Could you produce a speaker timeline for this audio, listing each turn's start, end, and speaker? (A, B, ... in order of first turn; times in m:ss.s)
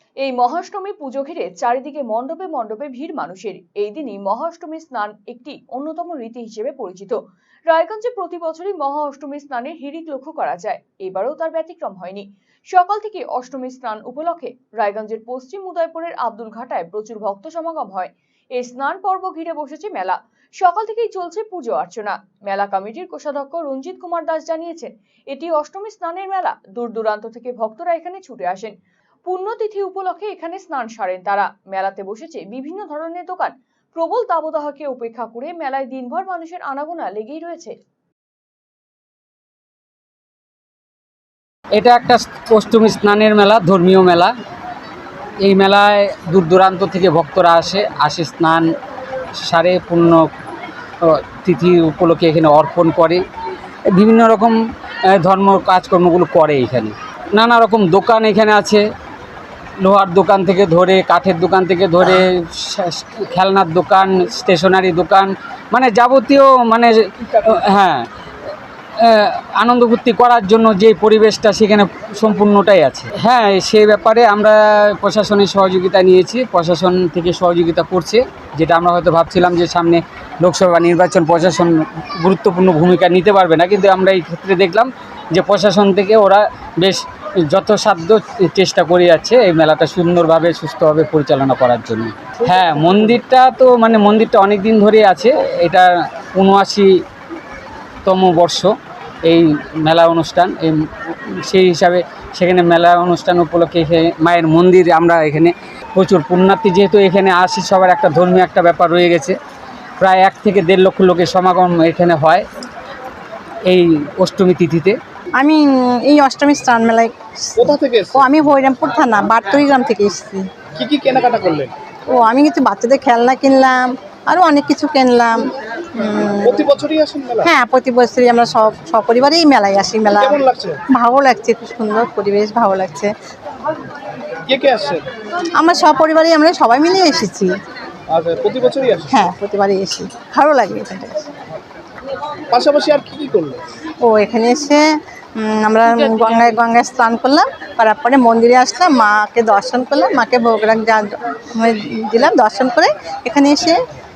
0:00.2-0:28.7 A
0:29.3-0:37.7 A
0:41.8-0:44.3 B
0:45.4-0:48.6 B
0:49.4-0:50.2 B
0:51.0-0:53.2 B
0:53.9-0:54.6 B
0:55.1-0:58.8 B
0:59.8-1:08.0 B
1:09.0-1:36.9 B
1:38.0-1:38.7 B
1:39.2-1:40.7 B
1:41.5-1:49.4 B
1:50.0-1:52.4 B
1:53.6-1:55.0 B
1:55.4-2:00.4 C
1:57.6-1:58.3 D
2:00.8-2:01.7 D
2:02.1-2:06.6 C
2:06.4-2:07.5 D
2:07.4-2:10.4 C
2:10.2-2:10.8 D
2:10.9-2:13.1 C
2:14.4-2:15.0 D
2:15.6-2:17.5 C
2:18.1-2:19.2 D
2:19.1-2:21.2 C
2:22.5-2:23.6 D
2:24.0-2:24.8 C
2:25.4-2:33.8 C